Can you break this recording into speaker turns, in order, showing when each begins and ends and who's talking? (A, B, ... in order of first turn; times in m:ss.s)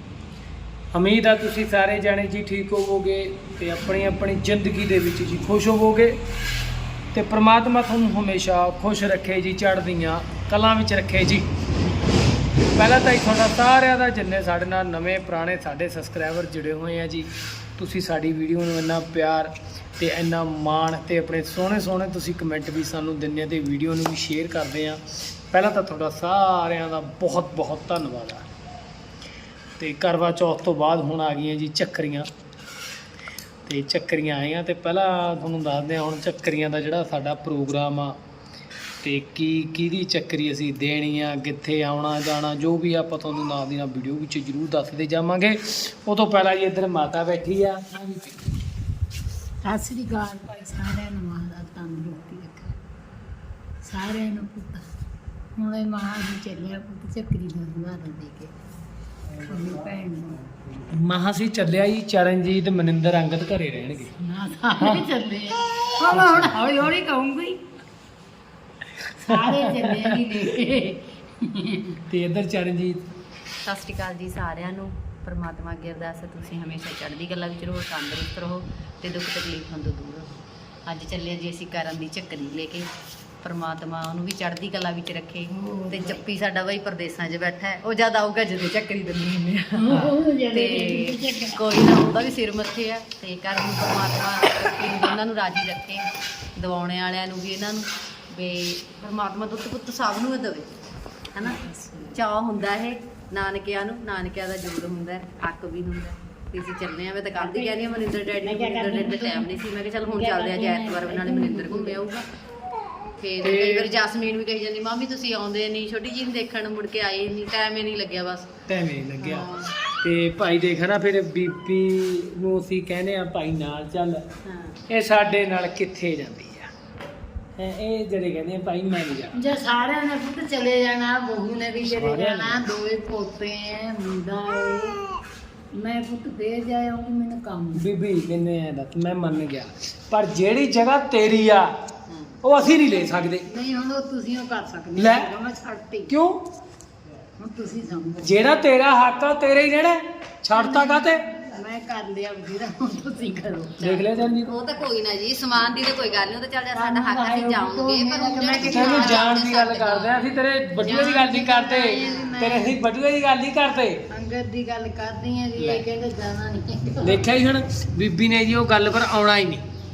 0:00.9-0:06.2 A
0:07.1-0:11.5 A
0:12.7-0:28.5 A
0:29.8-0:32.3 A
0:33.6-0:38.2 A
0:39.0-0:48.5 A
0:49.6-0:52.7 B
0:53.8-0:54.8 B
0:55.6-0:58.5 B
0:59.4-1:00.4 B
1:00.9-1:04.1 A
1:04.2-1:07.6 B
1:04.8-1:05.0 A
1:06.1-1:06.7 A
1:09.2-1:12.0 B
1:09.3-1:10.2 A
1:12.1-1:13.0 A
1:13.6-1:22.9 C
1:23.4-1:29.9 C
1:25.5-1:26.2 B
1:29.7-1:32.0 B
1:30.5-1:40.7 C
1:41.4-1:42.2 B
1:42.1-1:52.2 C
1:47.4-1:49.6 B
1:50.1-1:52.0 B
1:53.2-1:58.5 C
1:53.4-1:53.9 A
1:58.7-1:59.5 A
1:59.2-1:59.7 C
2:00.0-2:04.2 A
2:04.4-2:04.8 C
2:04.9-2:06.7 A
2:07.6-2:09.4 A
2:09.3-2:15.0 B
2:11.8-2:12.6 A
2:15.7-2:17.8 B
2:17.8-2:21.7 A
2:22.4-2:23.4 A
2:23.5-2:26.1 B
2:25.0-2:25.3 A
2:26.1-2:26.4 A
2:27.4-2:28.4 B
2:28.2-2:31.2 A
2:30.5-2:33.8 B
2:33.8-2:34.5 A
2:33.8-2:40.3 C
2:36.7-2:39.2 B
2:38.6-2:44.0 A
2:40.8-2:42.8 B
2:42.0-2:42.3 C
2:44.1-2:47.2 B
2:45.6-2:45.8 A
2:47.0-2:49.6 A